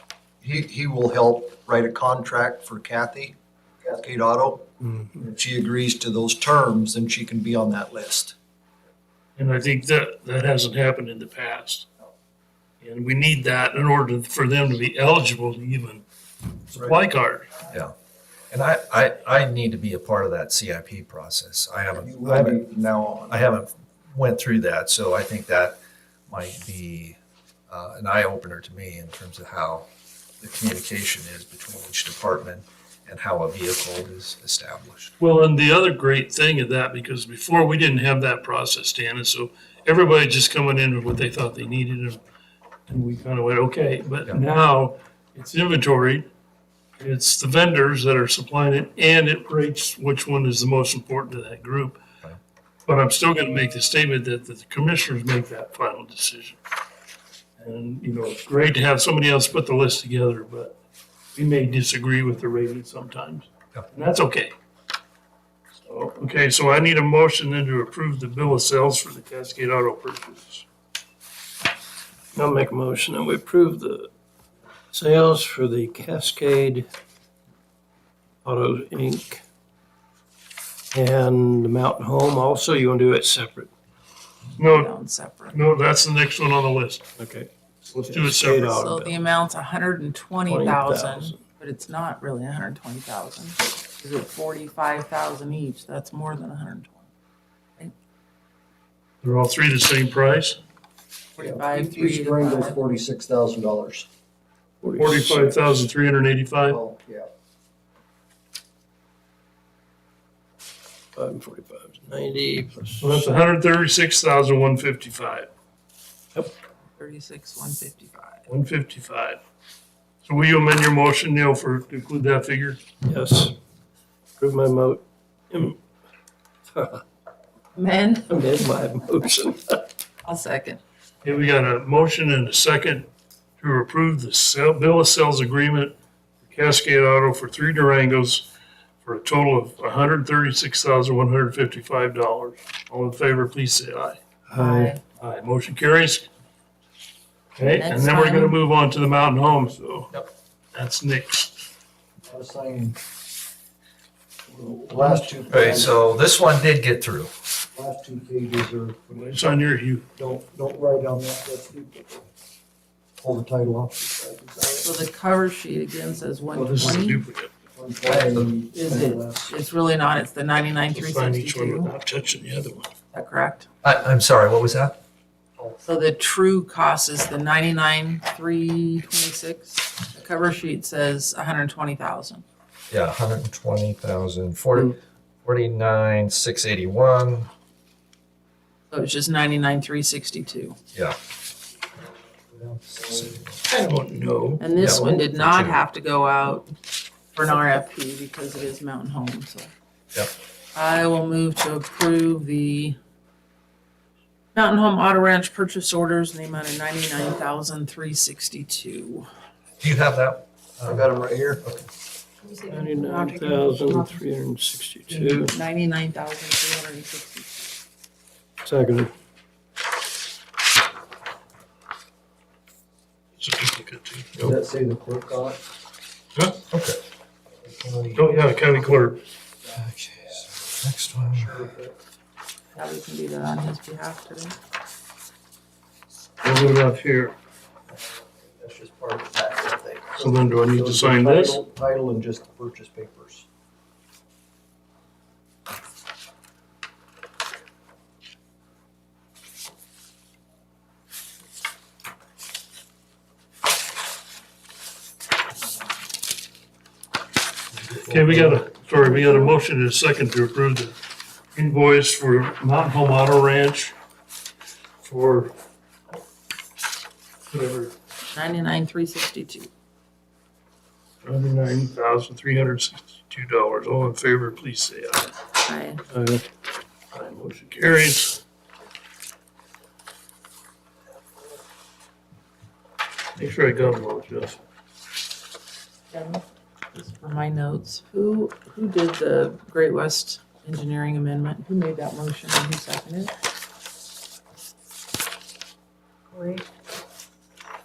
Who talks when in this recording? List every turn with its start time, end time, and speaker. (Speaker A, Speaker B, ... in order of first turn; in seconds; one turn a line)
Speaker A: 0.4-8.3
Speaker B: 9.4-11.9
Speaker B: 12.8-16.1
Speaker B: 16.7-17.5
Speaker A: 16.7-17.0
Speaker C: 18.5-22.6
Speaker A: 22.0-23.4
Speaker C: 23.3-25.8
Speaker C: 26.3-27.2
Speaker C: 27.7-29.9
Speaker C: 30.4-35.1
Speaker B: 35.2-42.2
Speaker B: 42.9-46.3
Speaker B: 47.0-52.0
Speaker B: 52.9-56.6
Speaker B: 57.6-60.8
Speaker B: 61.3-64.5
Speaker B: 65.8-70.6
Speaker D: 72.3-74.1
Speaker D: 74.9-76.9
Speaker D: 78.4-79.4
Speaker D: 80.9-83.7
Speaker B: 84.6-84.9
Speaker E: 84.6-85.6
Speaker B: 85.5-87.1
Speaker D: 87.2-89.3
Speaker B: 88.0-88.8
Speaker E: 88.6-97.1
Speaker D: 90.4-91.4
Speaker B: 99.2-100.6
Speaker E: 101.4-102.8
Speaker A: 101.4-104.1
Speaker D: 104.8-105.5
Speaker B: 105.0-106.8
Speaker A: 106.6-107.3
Speaker D: 111.1-113.3
Speaker B: 113.0-115.5
Speaker E: 117.0-118.4
Speaker B: 118.5-119.4
Speaker B: 120.2-122.8
Speaker D: 123.0-123.5
Speaker D: 124.4-125.8
Speaker D: 126.7-127.0
Speaker E: 127.8-128.7
Speaker D: 128.3-129.8
Speaker E: 130.2-130.8
Speaker B: 131.2-138.5
Speaker B: 139.0-144.2
Speaker D: 144.5-144.9
Speaker E: 144.5-145.0
Speaker B: 145.1-146.3
Speaker B: 147.6-150.1
Speaker E: 147.6-148.6
Speaker B: 150.7-151.7
Speaker A: 152.2-153.0
Speaker B: 154.6-155.2
Speaker A: 154.9-156.0
Speaker C: 155.5-157.3
Speaker A: 157.7-159.2
Speaker B: 159.1-160.1
Speaker A: 160.2-162.3
Speaker A: 163.2-164.9
Speaker E: 164.8-167.2
Speaker B: 166.6-167.5
Speaker A: 167.8-169.5
Speaker E: 168.7-171.9
Speaker B: 170.9-172.9
Speaker E: 173.1-173.7
Speaker C: 173.8-174.9
Speaker E: 175.8-182.4
Speaker C: 182.9-187.5
Speaker E: 188.9-190.8
Speaker A: 192.5-193.4
Speaker C: 193.0-193.6
Speaker B: 193.7-194.7
Speaker E: 194.6-196.7
Speaker C: 194.8-195.8
Speaker E: 197.3-199.7
Speaker E: 200.7-203.0
Speaker E: 204.5-209.3
Speaker C: 209.8-211.0
Speaker A: 210.9-211.6
Speaker E: 212.4-214.1
Speaker D: 212.7-215.5
Speaker E: 215.1-217.8
Speaker D: 218.7-219.1
Speaker B: 223.4-224.4
Speaker A: 224.4-225.6
Speaker C: 226.7-227.0
Speaker A: 227.6-229.1
Speaker B: 228.2-229.2
Speaker A: 229.6-230.4
Speaker C: 229.7-231.6
Speaker A: 231.3-232.0
Speaker E: 232.8-234.5
Speaker B: 236.4-237.3
Speaker A: 237.9-243.4
Speaker B: 240.2-241.6
Speaker B: 258.1-260.9
Speaker C: 258.3-258.6
Speaker E: 259.0-259.5
Speaker B: 261.6-263.9
Speaker B: 265.0-265.6
Speaker B: 267.5-267.9
Speaker E: 268.3-269.7
Speaker B: 271.2-275.3
Speaker E: 275.6-276.0
Speaker B: 276.1-276.4
Speaker B: 277.1-278.4
Speaker B: 283.4-284.6
Speaker E: 286.1-293.3
Speaker E: 296.3-296.6